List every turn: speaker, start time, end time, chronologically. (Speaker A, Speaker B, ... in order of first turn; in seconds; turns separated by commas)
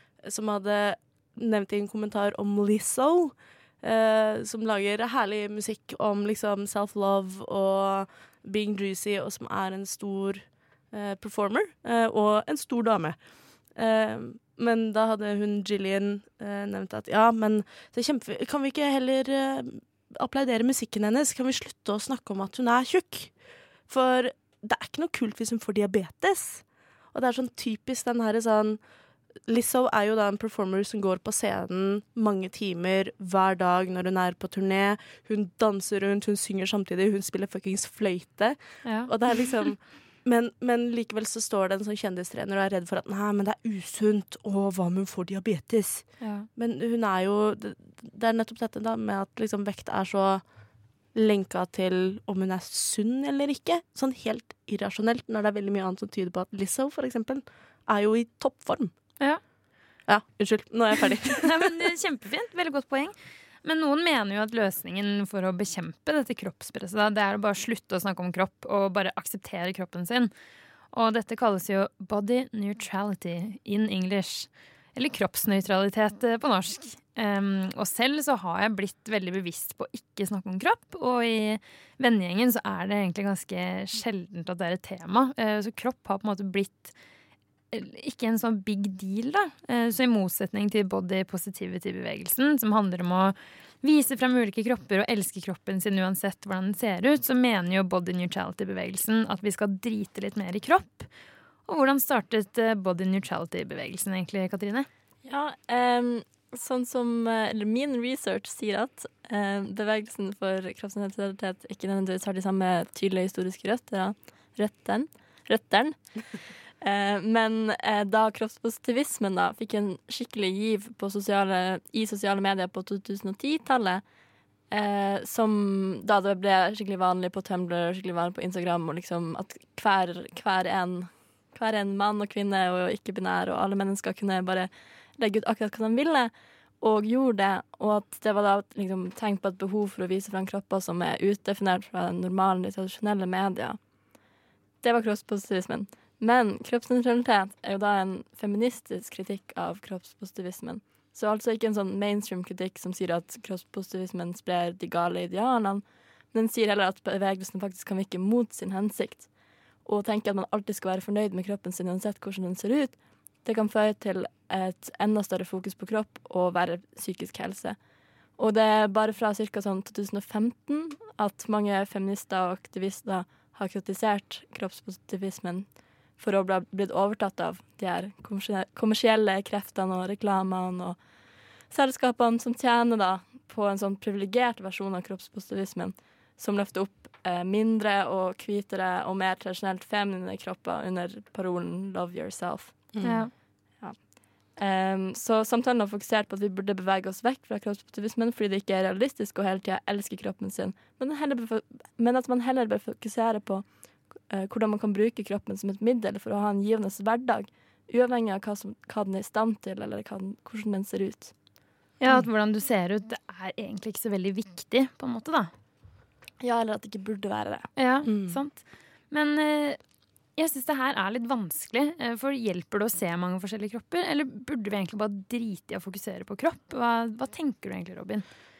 Speaker A: 0.2-13.2, Speaker A: 13.7-23.3, Speaker A: 23.9-28.8, Speaker A: 29.5-50.4, Speaker B: 38.8-39.1, Speaker B: 46.2-46.5, Speaker A: 51.1-58.9, Speaker A: 60.1-61.8, Speaker B: 61.4-70.3, Speaker B: 70.9-86.9, Speaker B: 87.7-101.1, Speaker B: 101.7-104.9, Speaker C: 105.2-116.0, Speaker C: 116.8-124.0, Speaker C: 124.7-143.8, Speaker C: 144.8-159.3, Speaker C: 159.8-167.8, Speaker C: 168.4-181.0, Speaker C: 181.7-193.0, Speaker A: 192.9-193.3, Speaker B: 193.0-193.3, Speaker C: 193.8-203.7, Speaker C: 204.3-211.3, Speaker B: 212.0-215.5, Speaker B: 217.8-219.8, Speaker A: 218.0-218.4, Speaker B: 220.4-228.2